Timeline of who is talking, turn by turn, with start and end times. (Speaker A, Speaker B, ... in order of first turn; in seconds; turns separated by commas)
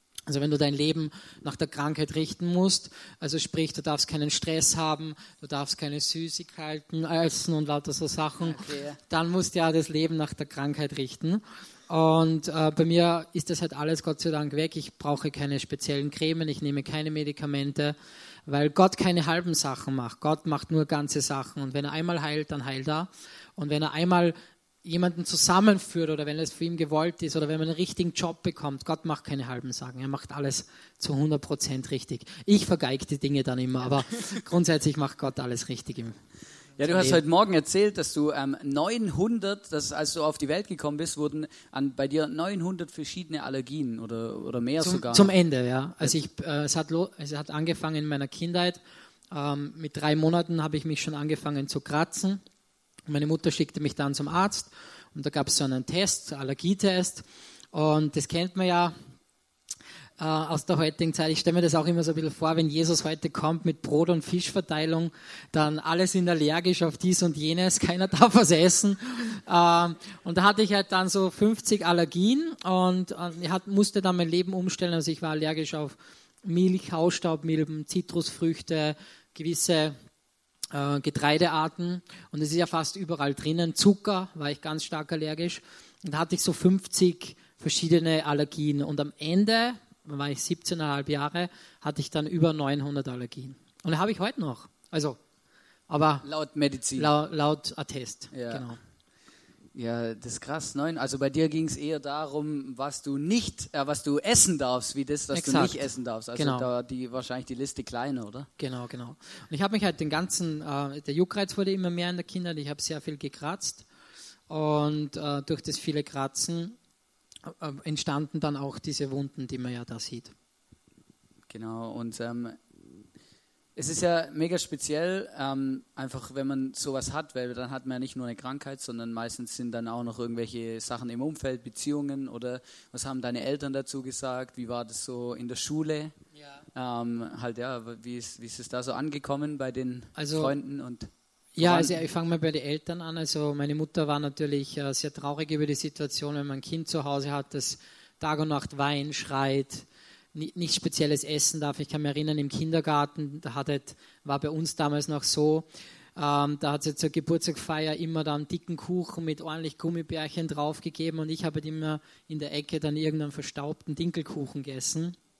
Speaker A: 0.3-17.9, Speaker B: 8.4-9.0, Speaker A: 18.5-36.2, Speaker B: 36.8-45.3, Speaker A: 36.8-37.2, Speaker A: 44.8-52.4, Speaker A: 53.1-58.9, Speaker A: 60.2-80.0, Speaker A: 80.7-95.2, Speaker A: 95.9-96.3, Speaker B: 96.2-97.1, Speaker A: 97.0-98.8, Speaker B: 98.3-98.7, Speaker B: 99.8-108.5, Speaker A: 105.3-105.8, Speaker A: 106.4-106.7, Speaker A: 108.6-113.9, Speaker A: 114.5-116.8, Speaker A: 117.4-120.3, Speaker B: 121.5-122.6, Speaker B: 123.8-136.2, Speaker B: 136.8-142.1, Speaker A: 140.2-140.5, Speaker A: 141.6-165.2